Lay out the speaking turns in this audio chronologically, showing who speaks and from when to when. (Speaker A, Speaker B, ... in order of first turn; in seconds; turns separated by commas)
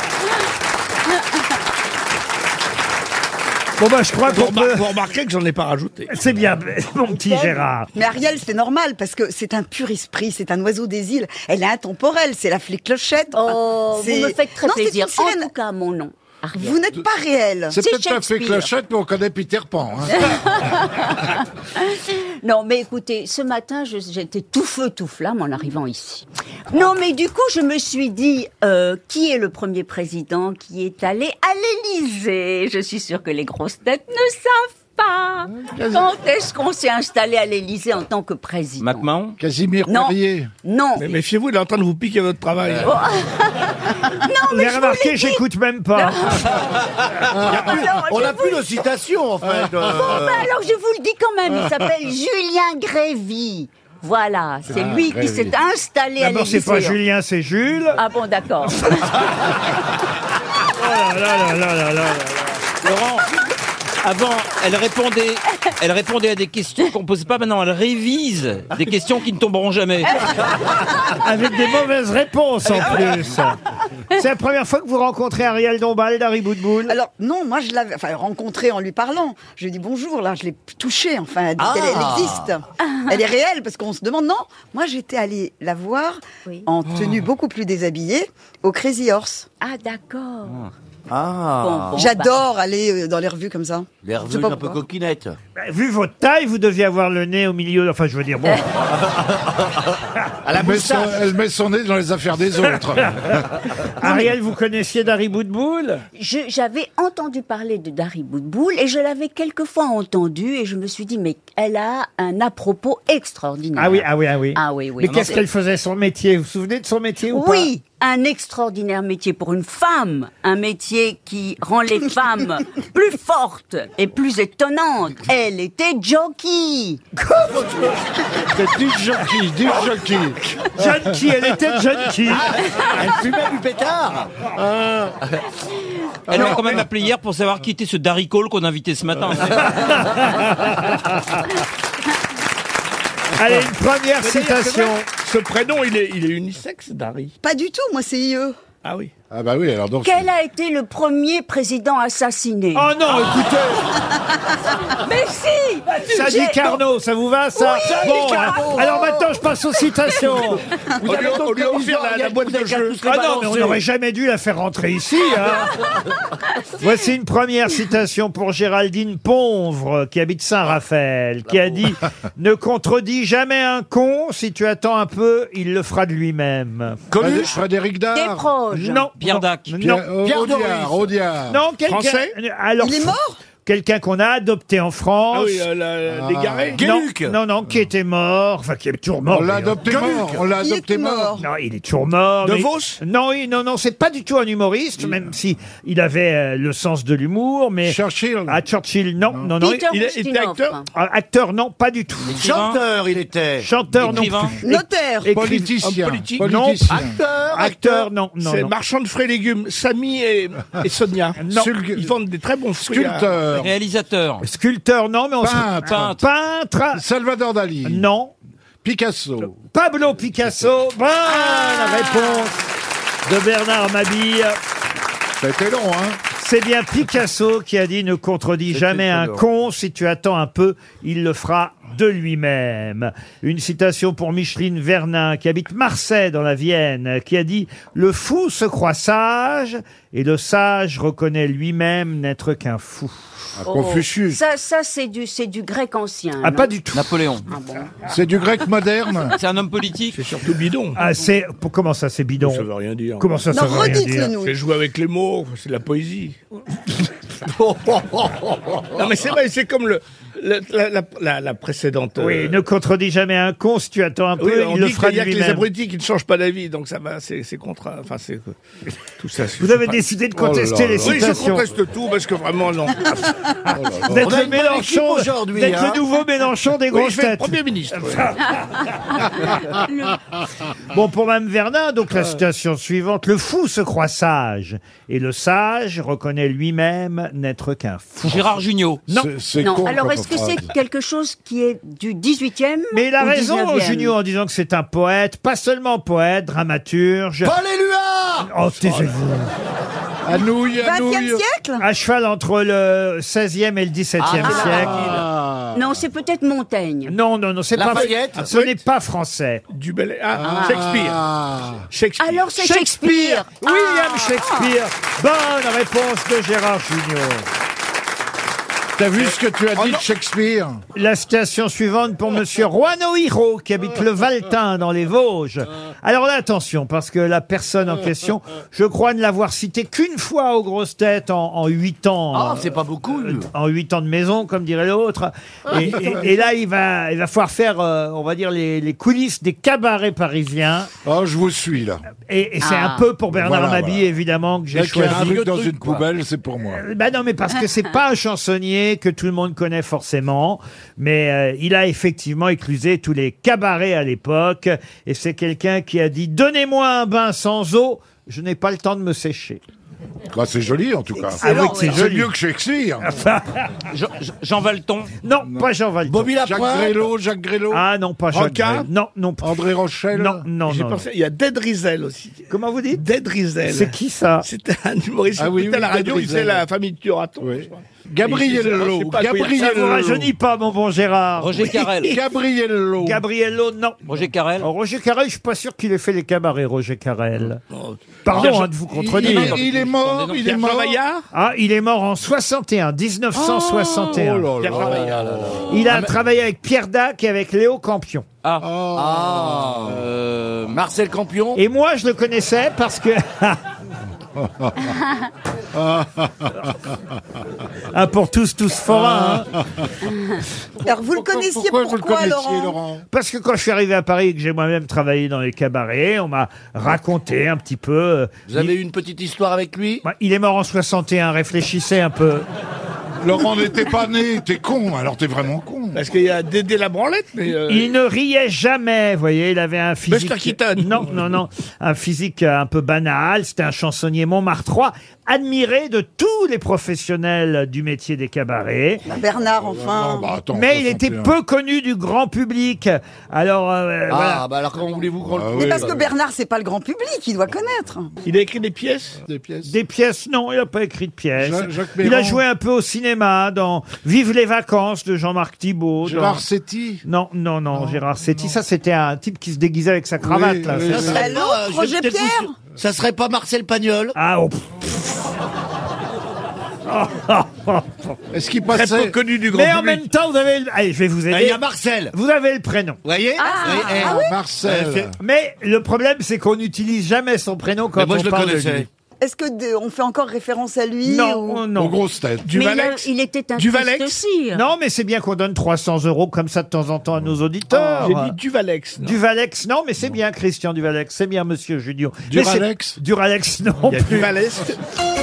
Speaker A: 3.8-4.8, Speaker B: 4.2-6.1, Speaker A: 6.1-7.9, Speaker C: 8.0-15.5, Speaker D: 13.3-16.8, Speaker C: 16.6-17.8, Speaker E: 17.7-20.4, Speaker D: 17.8-18.7, Speaker D: 20.2-39.1, Speaker E: 35.6-36.1, Speaker F: 38.8-39.4, Speaker E: 39.4-40.5, Speaker D: 39.9-41.2, Speaker B: 41.0-42.9, Speaker D: 42.8-45.4, Speaker A: 44.5-46.6, Speaker D: 46.0-46.7, Speaker E: 47.4-47.9, Speaker D: 47.4-48.7, Speaker G: 47.5-50.5, Speaker D: 50.0-57.0, Speaker E: 54.7-55.6, Speaker A: 56.2-58.0, Speaker D: 58.0-59.3, Speaker A: 60.8-62.5, Speaker F: 62.8-63.3, Speaker F: 64.0-70.3, Speaker A: 71.0-73.6, Speaker A: 74.1-77.0, Speaker C: 76.9-89.5, Speaker G: 81.6-82.5, Speaker D: 82.9-83.2, Speaker D: 89.6-90.6, Speaker G: 91.1-92.0, Speaker D: 91.6-92.3, Speaker C: 91.9-94.8, Speaker G: 94.0-95.4, Speaker A: 95.6-98.7, Speaker G: 99.1-99.7, Speaker G: 100.5-101.2, Speaker E: 100.5-103.4, Speaker A: 104.0-106.0, Speaker D: 104.0-104.3, Speaker D: 106.2-115.4, Speaker A: 113.8-117.7, Speaker D: 117.3-127.0, Speaker E: 128.4-131.1, Speaker A: 130.8-132.6, Speaker G: 132.6-134.3, Speaker E: 134.6-135.1, Speaker E: 136.3-136.8, Speaker F: 136.3-139.9, Speaker A: 139.6-141.4, Speaker A: 143.4-145.1, Speaker B: 144.2-147.3, Speaker C: 147.4-148.6, Speaker B: 148.8-149.1, Speaker E: 149.3-150.3, Speaker D: 150.0-153.5, Speaker A: 152.7-153.9, Speaker D: 154.9-156.8, Speaker A: 156.0-160.6, Speaker D: 157.6-159.3, Speaker G: 157.8-159.0, Speaker D: 160.1-160.4, Speaker G: 161.0-163.8, Speaker B: 161.0-163.1, Speaker A: 163.0-165.7, Speaker A: 166.8-177.0, Speaker G: 171.5-171.8, Speaker G: 177.1-177.6, Speaker E: 177.2-178.5, Speaker D: 178.1-179.1, Speaker A: 178.7-180.1, Speaker F: 179.2-179.7, Speaker E: 179.8-181.6, Speaker G: 180.2-181.1, Speaker A: 181.5-185.7, Speaker B: 181.8-182.3, Speaker C: 182.8-183.4, Speaker B: 185.3-186.9, Speaker E: 186.1-186.8, Speaker G: 186.8-187.3, Speaker A: 186.8-190.4, Speaker E: 189.3-191.4, Speaker C: 190.5-191.4, Speaker A: 191.4-199.9, Speaker B: 192.4-193.0, Speaker E: 197.8-198.6, Speaker D: 199.6-200.8, Speaker B: 199.9-200.8, Speaker A: 200.9-202.4, Speaker G: 202.3-204.3, Speaker F: 202.3-202.8, Speaker A: 203.6-205.8, Speaker F: 204.0-204.6, Speaker C: 204.6-205.4, Speaker E: 205.3-207.2, Speaker G: 206.0-206.3, Speaker A: 206.4-208.7, Speaker G: 206.9-207.9, Speaker B: 208.4-211.4, Speaker A: 211.4-211.7, Speaker E: 211.5-212.1, Speaker B: 211.9-213.3, Speaker E: 212.8-213.7, Speaker F: 213.5-214.4, Speaker A: 214.4-217.0, Speaker E: 215.4-216.2, Speaker F: 215.9-216.2, Speaker E: 216.9-218.1, Speaker A: 217.8-218.3, Speaker E: 218.8-219.5, Speaker A: 219.5-222.7, Speaker D: 221.3-222.5, Speaker A: 223.3-224.6, Speaker E: 225.4-226.2, Speaker A: 226.4-243.2, Speaker G: 228.7-229.4, Speaker E: 243.6-244.4, Speaker D: 243.7-246.7, Speaker A: 246.4-247.2, Speaker F: 246.9-247.4, Speaker D: 247.5-247.9, Speaker E: 248.1-249.4, Speaker F: 249.3-250.2, Speaker B: 250.1-251.0, Speaker A: 251.0-252.7, Speaker B: 252.4-253.3, Speaker A: 253.2-254.3, Speaker C: 253.5-254.6, Speaker B: 254.4-256.4, Speaker B: 258.9-262.6, Speaker A: 262.2-265.7, Speaker B: 264.4-268.6, Speaker B: 269.2-270.0, Speaker A: 269.6-271.7, Speaker E: 270.3-271.4, Speaker B: 271.0-273.3, Speaker A: 273.7-278.3, Speaker E: 273.8-274.2, Speaker G: 274.1-276.0, Speaker B: 276.9-278.3, Speaker D: 279.0-280.2, Speaker A: 280.9-288.5, Speaker F: 288.2-289.0, Speaker E: 289.1-290.7, Speaker D: 289.6-294.1, Speaker A: 292.9-297.6, Speaker G: 297.4-298.5, Speaker A: 298.4-299.5, Speaker E: 300.2-301.4, Speaker C: 300.7-301.8, Speaker A: 301.8-305.1, Speaker G: 304.2-305.2, Speaker D: 304.4-304.9, Speaker E: 304.9-305.9, Speaker D: 305.7-307.2, Speaker A: 307.1-309.6, Speaker G: 307.7-308.5, Speaker B: 308.4-308.7, Speaker B: 309.7-311.2, Speaker E: 310.4-311.9, Speaker D: 310.4-310.9, Speaker B: 311.9-312.5, Speaker D: 312.2-314.8, Speaker A: 312.6-317.5, Speaker E: 319.0-320.8, Speaker B: 319.8-320.0, Speaker A: 320.9-340.9, Speaker G: 332.3-333.5, Speaker E: 341.0-342.0, Speaker A: 342.3-345.5, Speaker D: 342.6-343.1, Speaker E: 343.3-344.1, Speaker E: 344.7-346.8, Speaker G: 344.9-346.1, Speaker A: 346.7-359.6, Speaker E: 360.3-363.1, Speaker D: 361.4-362.0, Speaker A: 361.4-362.3, Speaker A: 363.0-363.7, Speaker F: 363.9-365.1, Speaker A: 365.2-366.3, Speaker E: 365.4-365.7, Speaker G: 366.1-367.0, Speaker E: 366.4-367.8, Speaker A: 367.7-369.6, Speaker B: 368.3-368.9, Speaker E: 369.4-370.5, Speaker A: 370.1-371.0, Speaker B: 370.7-379.7, Speaker A: 372.5-373.0, Speaker A: 373.7-374.5, Speaker E: 375.4-376.6, Speaker E: 377.4-380.3, Speaker A: 379.6-381.6, Speaker F: 381.4-382.2, Speaker B: 381.6-382.1, Speaker E: 382.0-383.2, Speaker A: 383.0-384.0, Speaker F: 384.1-384.7, Speaker A: 384.6-387.6, Speaker B: 387.7-388.5, Speaker A: 388.2-389.6, Speaker E: 388.3-391.0, Speaker B: 389.2-389.6, Speaker F: 389.8-390.4, Speaker B: 390.3-391.3, Speaker A: 391.3-394.5, Speaker G: 393.5-396.1, Speaker E: 394.0-395.7, Speaker B: 394.6-395.2, Speaker A: 395.7-398.3, Speaker E: 398.6-400.1, Speaker G: 399.0-400.1, Speaker F: 400.1-400.8, Speaker G: 400.7-401.6, Speaker A: 401.6-403.6, Speaker E: 404.4-404.9, Speaker E: 405.7-406.7, Speaker A: 407.9-409.5, Speaker E: 408.9-409.9, Speaker C: 410.9-412.8, Speaker E: 411.1-413.1, Speaker A: 413.1-418.7, Speaker G: 418.5-420.0, Speaker A: 420.0-422.5, Speaker E: 423.2-426.0, Speaker B: 425.9-427.9, Speaker A: 427.7-439.0, Speaker B: 430.1-431.2, Speaker C: 439.1-440.3, Speaker E: 439.7-441.4, Speaker A: 440.5-444.4, Speaker G: 444.1-445.9, Speaker E: 445.2-446.1, Speaker C: 445.5-448.1, Speaker B: 448.2-449.2, Speaker E: 449.2-449.8, Speaker A: 449.6-456.4, Speaker E: 451.4-452.4, Speaker E: 456.0-457.0, Speaker A: 457.1-461.2, Speaker E: 457.7-458.6, Speaker E: 460.2-461.3, Speaker G: 460.8-464.2, Speaker C: 461.1-462.6, Speaker A: 464.2-465.2, Speaker A: 466.9-468.2, Speaker E: 468.3-469.2, Speaker B: 468.7-469.9, Speaker G: 469.2-469.5, Speaker A: 469.5-473.0, Speaker G: 471.3-472.1, Speaker G: 473.1-475.1, Speaker D: 473.4-474.4, Speaker E: 474.0-475.1, Speaker A: 475.2-478.9, Speaker G: 478.0-478.9, Speaker C: 479.2-481.6, Speaker A: 481.0-482.0, Speaker E: 481.8-482.6, Speaker B: 482.5-484.2, Speaker D: 482.5-484.6, Speaker A: 484.5-488.4, Speaker B: 487.7-489.2, Speaker A: 489.0-494.3, Speaker E: 492.3-493.0, Speaker B: 493.9-494.8